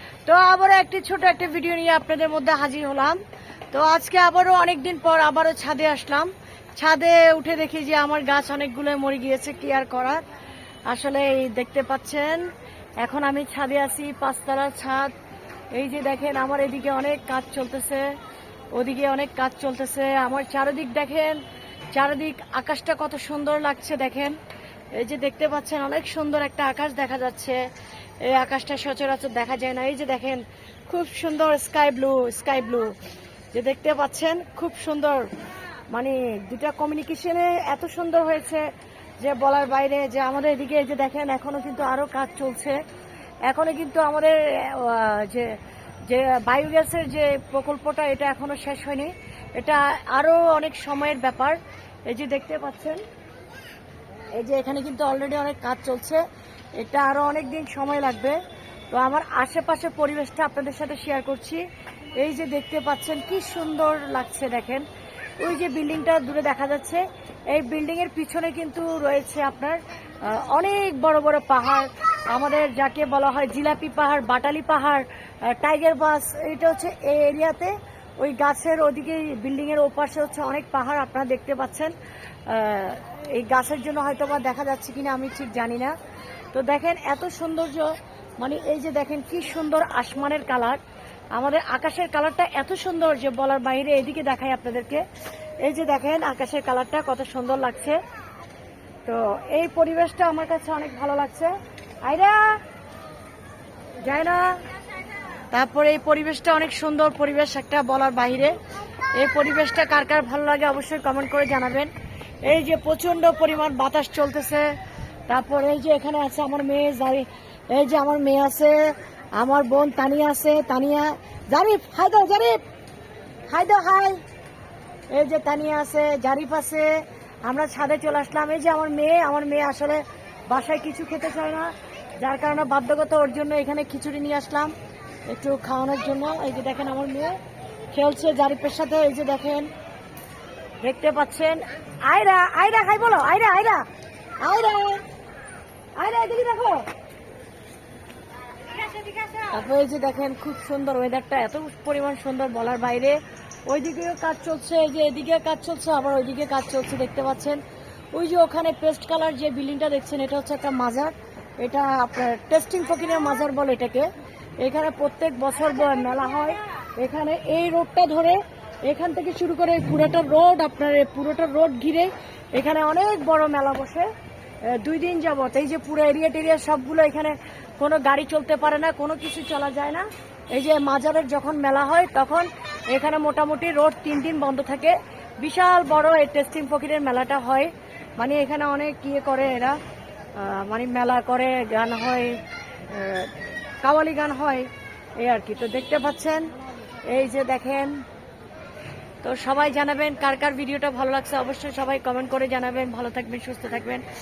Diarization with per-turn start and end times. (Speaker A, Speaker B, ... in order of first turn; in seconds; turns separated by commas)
Speaker A: 0.2-3.2, Speaker A: 3.7-10.2, Speaker A: 10.9-12.4, Speaker A: 13.0-15.1, Speaker A: 15.7-18.1, Speaker A: 18.7-21.4, Speaker A: 21.9-24.4, Speaker A: 24.9-27.6, Speaker A: 28.2-33.0, Speaker A: 33.5-35.3, Speaker A: 35.9-38.7, Speaker A: 39.2-42.8, Speaker A: 43.5-53.0, Speaker A: 54.3-56.2, Speaker A: 56.8-58.4, Speaker A: 58.9-61.6, Speaker A: 62.1-64.9, Speaker A: 65.4-81.9, Speaker A: 82.5-85.9, Speaker A: 86.5-90.8, Speaker A: 91.3-95.0, Speaker A: 95.6-98.0, Speaker A: 99.0-101.5, Speaker A: 102.0-102.6, Speaker A: 104.0-104.6, Speaker A: 105.5-108.6, Speaker A: 109.2-111.9, Speaker A: 112.5-114.7, Speaker A: 115.3-122.6, Speaker A: 123.5-124.2, Speaker A: 125.1-126.9, Speaker A: 127.5-134.7, Speaker A: 135.3-137.4, Speaker A: 137.9-139.7, Speaker A: 140.8-143.8, Speaker A: 144.4-145.0, Speaker A: 146.0-146.9, Speaker A: 149.4-157.6, Speaker A: 158.1-174.1, Speaker A: 174.7-189.8, Speaker A: 190.4-196.5, Speaker A: 197.1-197.9, Speaker A: 199.2-204.0